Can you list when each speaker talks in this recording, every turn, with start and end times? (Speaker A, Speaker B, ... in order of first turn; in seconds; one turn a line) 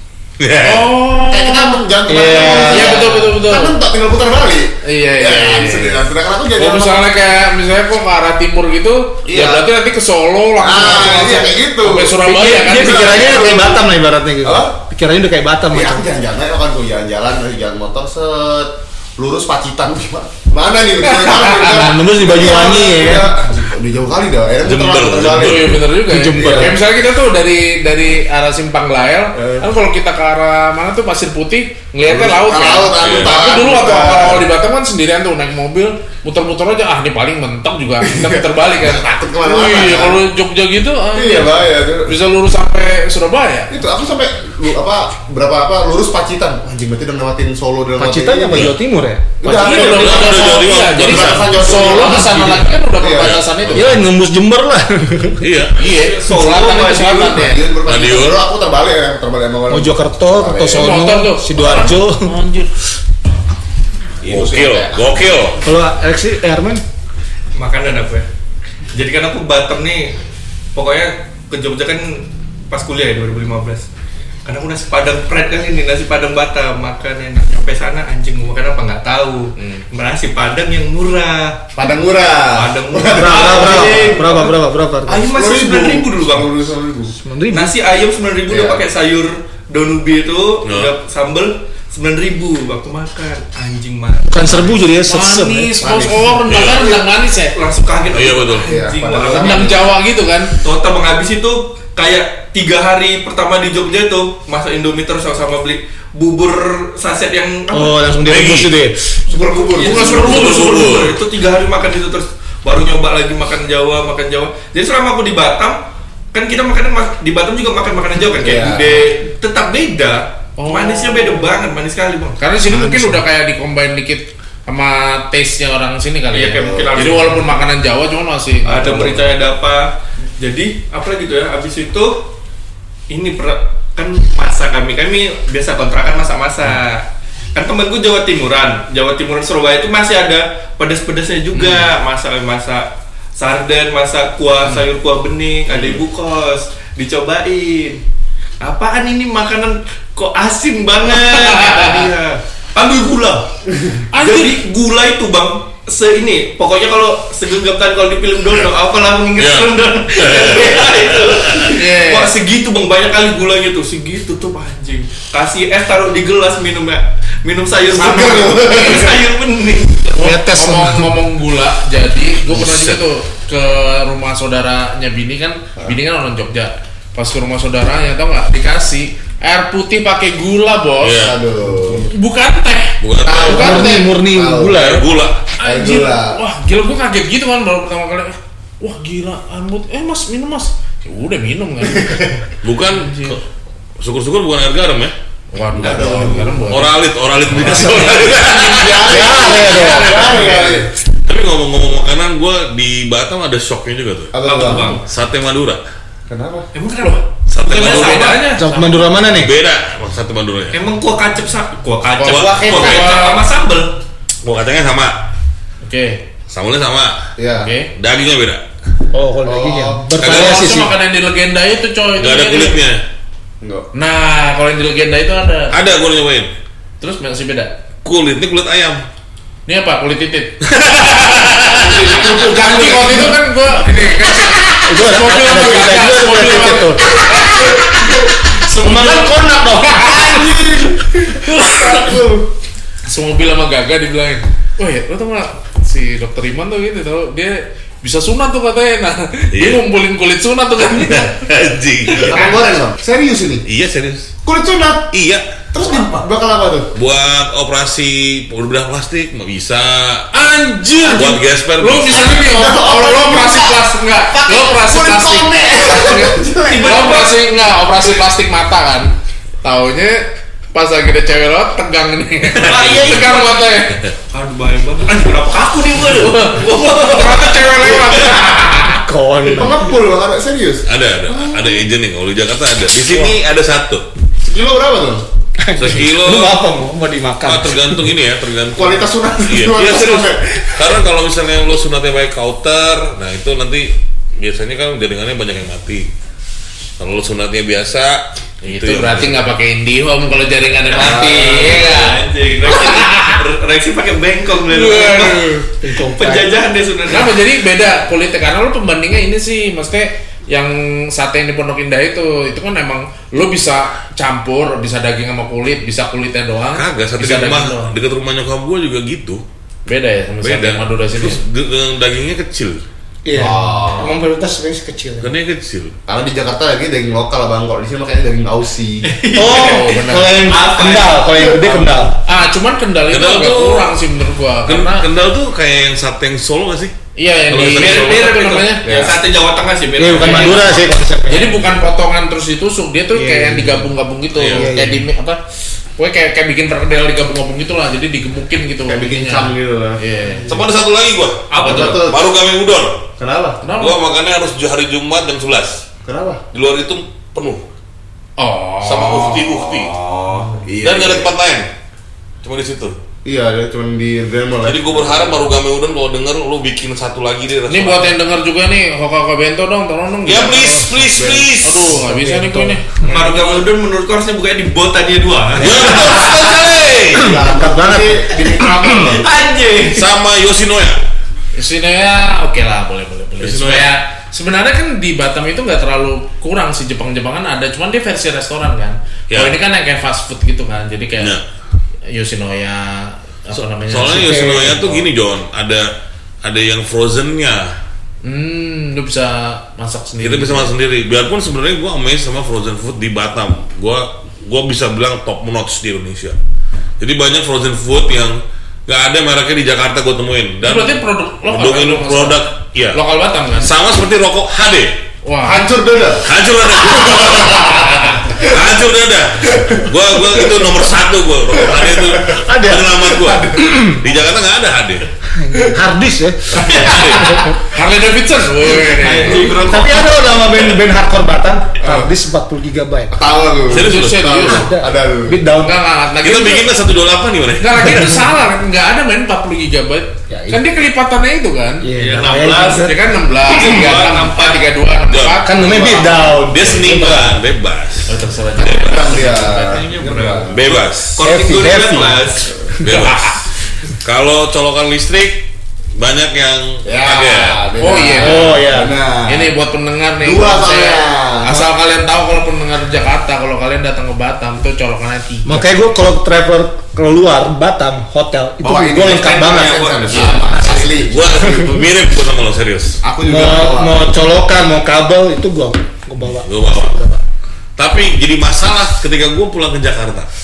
Speaker A: 0.4-1.0
Speaker B: 0.6-3.8
Speaker C: 1.2-7.1
Speaker D: 2.1-3.1
Speaker B: 4.8-6.0
Speaker B: 6.6-13.5
Speaker C: 9.3-9.7
Speaker C: 10.6-13.9
Speaker D: 12.2-16.1
Speaker C: 14.4-14.7
Speaker C: 15.7-26.8
Speaker B: 21.1-21.8
Speaker D: 21.6-23.3
Speaker A: 24.6-25.8
Speaker B: 25.2-43.7
Speaker D: 26.1-26.8
Speaker C: 29.3-29.7
Speaker C: 32.0-34.5
Speaker A: 33.0-33.5
Speaker C: 38.0-40.2
Speaker C: 41.1-42.2
Speaker C: 43.7-48.7
Speaker D: 48.0-49.4
Speaker C: 49.4-53.8
Speaker B: 49.4-54.0
Speaker A: 49.5-52.2
Speaker A: 53.1-53.4
Speaker D: 53.7-55.4
Speaker A: 55.4-56.0
Speaker B: 55.8-57.6
Speaker E: 55.9-57.4
Speaker C: 56.5-61.0
Speaker A: 57.8-58.4
Speaker D: 59.7-62.3
Speaker B: 60.7-62.7
Speaker C: 64.2-65.2
Speaker A: 64.2-65.6
Speaker D: 65.6-66.8
Speaker E: 67.5-68.2
Speaker E: 68.9-70.2
Speaker E: 70.7-73.9
Speaker E: 74.4-81.6
Speaker B: 79.5-79.8
Speaker C: 81.7-84.3
Speaker E: 82.5-84.5
Speaker D: 83.1-85.2
Speaker E: 85.1-86.6
Speaker C: 85.1-87.1
Speaker D: 87.2-87.7
Speaker E: 87.5-94.8
Speaker C: 88.5-88.8
Speaker A: 90.6-90.9
Speaker D: 94.3-96.3
Speaker B: 95.0-97.5
Speaker A: 96.5-96.9
Speaker E: 96.8-99.8
Speaker A: 98.1-98.7
Speaker C: 98.6-99.9
Speaker B: 99.3-100.5
Speaker E: 100.5-108.1
Speaker D: 107.7-109.2
Speaker A: 108.2-108.7
Speaker C: 109.3-110.4
Speaker E: 109.3-115.8
Speaker B: 109.8-111.0
Speaker A: 110.0-111.2
Speaker E: 116.3-122.4
Speaker C: 118.4-119.1
Speaker B: 120.6-121.5
Speaker B: 122.4-129.3
Speaker D: 122.7-123.2
Speaker E: 126.3-127.5
Speaker C: 126.6-126.9
Speaker E: 128.7-132.3
Speaker E: 133.1-148.0
Speaker B: 141.5-141.9
Speaker E: 148.6-153.5
Speaker B: 151.1-152.0
Speaker B: 154.1-154.6
Speaker E: 154.1-170.3
Speaker A: 159.4-161.7
Speaker B: 161.7-162.3
Speaker C: 167.9-169.2
Speaker B: 170.2-181.3
Speaker D: 170.2-171.2
Speaker A: 172.5-173.0
Speaker A: 181.0-181.4
Speaker C: 181.1-182.1
Speaker B: 181.9-184.0
Speaker A: 183.0-183.9
Speaker C: 183.2-184.8
Speaker D: 183.4-185.1
Speaker A: 184.7-185.5
Speaker C: 185.6-186.4
Speaker B: 185.6-192.2
Speaker C: 191.9-192.4
Speaker A: 192.6-193.4
Speaker B: 192.9-193.4
Speaker A: 194.0-195.1
Speaker B: 195.5-200.8
Speaker C: 195.7-196.8
Speaker A: 196.7-199.4
Speaker C: 197.9-200.9
Speaker D: 199.0-200.4
Speaker E: 200.3-200.7
Speaker A: 201.1-204.3
Speaker C: 204.3-205.0
Speaker E: 204.4-205.0
Speaker B: 204.6-204.9
Speaker A: 204.9-205.8
Speaker C: 206.3-206.7
Speaker E: 206.7-208.5
Speaker A: 207.5-208.4
Speaker B: 207.6-208.9
Speaker D: 208.6-209.5
Speaker A: 209.2-210.8
Speaker E: 210.7-213.9
Speaker B: 212.2-213.4
Speaker A: 212.2-213.2
Speaker A: 214.4-215.2
Speaker B: 215.8-216.2
Speaker A: 216.5-217.3
Speaker C: 217.4-217.7
Speaker B: 217.6-217.9
Speaker A: 217.9-218.6
Speaker D: 219.1-220.9
Speaker C: 219.4-220.1
Speaker A: 220.2-220.6
Speaker B: 220.2-222.8
Speaker A: 222.1-223.0
Speaker C: 223.6-223.9
Speaker B: 223.9-225.8
Speaker A: 225.7-226.5
Speaker B: 227.0-227.7
Speaker A: 228.0-229.0
Speaker B: 229.7-237.8
Speaker A: 230.6-232.9
Speaker C: 232.4-232.9
Speaker D: 232.8-233.3
Speaker D: 234.8-240.6
Speaker B: 238.7-239.3
Speaker B: 239.8-240.4
Speaker C: 240.0-242.5
Speaker B: 241.4-242.0
Speaker B: 243.0-251.5
Speaker A: 249.5-249.8
Speaker A: 250.8-252.4
Speaker B: 252.1-252.6
Speaker C: 252.2-253.6
Speaker A: 253.7-254.3
Speaker C: 254.4-255.1
Speaker A: 255.1-255.5
Speaker C: 255.7-256.9
Speaker A: 256.9-260.3
Speaker B: 260.3-274.0
Speaker A: 261.1-262.4
Speaker C: 262.1-267.2
Speaker E: 266.6-267.4
Speaker A: 272.6-273.3
Speaker E: 272.6-273.5
Speaker E: 274.3-278.4
Speaker B: 276.0-279.0
Speaker D: 278.8-279.9
Speaker C: 279.5-281.8
Speaker A: 280.9-284.1
Speaker C: 284.4-285.2
Speaker D: 285.6-288.1
Speaker A: 285.8-286.6
Speaker A: 287.4-296.1
Speaker C: 288.7-291.0
Speaker A: 297.0-299.4
Speaker B: 298.6-303.4
Speaker E: 300.8-307.4
Speaker C: 301.0-301.8
Speaker B: 304.7-305.7
Speaker D: 305.8-306.5
Speaker B: 307.1-317.9
Speaker A: 316.7-319.4
Speaker B: 319.9-321.4
Speaker A: 320.4-322.8
Speaker D: 323.2-325.3
Speaker C: 323.4-324.1
Speaker B: 323.4-324.1
Speaker A: 325.2-325.9
Speaker C: 326.1-329.1
Speaker E: 329.0-331.8
Speaker D: 329.3-332.2
Speaker B: 329.4-330.4
Speaker B: 332.2-335.1
Speaker A: 333.1-334.0
Speaker A: 334.6-336.9
Speaker B: 337.1-339.1
Speaker E: 337.5-340.8
Speaker A: 337.5-338.1
Speaker C: 338.8-339.1
Speaker D: 340.0-341.7
Speaker B: 340.1-340.7
Speaker B: 341.3-345.4
Speaker D: 343.1-343.9
Speaker A: 344.3-344.6
Speaker D: 344.5-345.1
Speaker B: 346.0-350.5
Speaker C: 348.9-350.0
Speaker A: 350.5-353.1
Speaker E: 351.5-352.0
Speaker C: 351.6-352.3
Speaker C: 353.2-353.6
Speaker B: 353.6-354.0
Speaker A: 353.8-355.8
Speaker C: 356.0-356.4
Speaker A: 356.5-357.6
Speaker B: 358.4-359.5
Speaker A: 358.8-360.0
Speaker C: 360.1-361.3
Speaker A: 360.8-361.7
Speaker A: 362.4-362.9
Speaker C: 363.2-365.5
Speaker A: 364.6-368.1
Speaker B: 367.7-370.8
Speaker A: 370.2-372.0
Speaker D: 370.5-371.1
Speaker C: 371.1-371.4
Speaker B: 371.6-373.6
Speaker D: 371.9-373.2
Speaker E: 373.1-376.7
Speaker A: 375.6-377.3
Speaker C: 375.6-376.1
Speaker C: 377.1-379.3
Speaker D: 377.1-379.1
Speaker E: 378.9-380.0
Speaker A: 379.9-381.0
Speaker B: 381.5-391.3
Speaker A: 383.4-383.9
Speaker A: 389.3-389.6
Speaker B: 392.1-395.1
Speaker A: 393.6-395.9
Speaker D: 394.1-394.9
Speaker A: 396.4-397.7
Speaker B: 398.2-400.7
Speaker A: 400.2-406.4
Speaker A: 407.0-413.0
Speaker B: 410.6-413.7
Speaker A: 413.6-414.9
Speaker B: 415.2-415.7
Speaker C: 415.4-416.3
Speaker A: 416.2-425.1
Speaker C: 416.9-417.7
Speaker B: 417.4-418.4
Speaker C: 418.4-418.6
Speaker C: 419.5-420.8
Speaker C: 421.5-423.7
Speaker D: 422.5-422.9
Speaker D: 423.6-424.0
Speaker D: 425.3-427.4
Speaker A: 426.5-427.5
Speaker E: 426.6-427.4
Speaker B: 427.5-429.5
Speaker E: 428.8-430.3
Speaker D: 429.3-433.1
Speaker C: 431.8-432.1
Speaker C: 433.1-435.4
Speaker A: 433.7-434.4
Speaker B: 433.7-434.7
Speaker D: 434.4-435.8
Speaker B: 435.6-436.7
Speaker A: 436.2-438.0
Speaker B: 437.6-441.9
Speaker D: 440.3-440.6
Speaker D: 441.8-443.0
Speaker E: 442.0-442.9
Speaker B: 442.8-446.9
Speaker A: 443.5-444.6
Speaker E: 443.6-444.6
Speaker A: 445.1-449.0
Speaker D: 445.4-447.4
Speaker B: 448.1-449.9
Speaker C: 448.6-450.8
Speaker E: 449.5-452.5
Speaker A: 450.5-451.2
Speaker D: 451.2-452.3
Speaker A: 452.8-453.4
Speaker B: 452.9-453.4
Speaker A: 454.0-457.6
Speaker C: 456.8-459.5
Speaker B: 457.8-458.5
Speaker D: 458.2-458.9
Speaker B: 459.2-465.6
Speaker C: 460.2-461.7
Speaker D: 465.4-471.0
Speaker C: 468.6-471.8
Speaker E: 469.1-470.2
Speaker B: 470.1-470.4
Speaker A: 471.1-473.0
Speaker C: 473.0-474.0
Speaker D: 473.2-477.2
Speaker A: 476.4-477.0
Speaker A: 477.8-480.3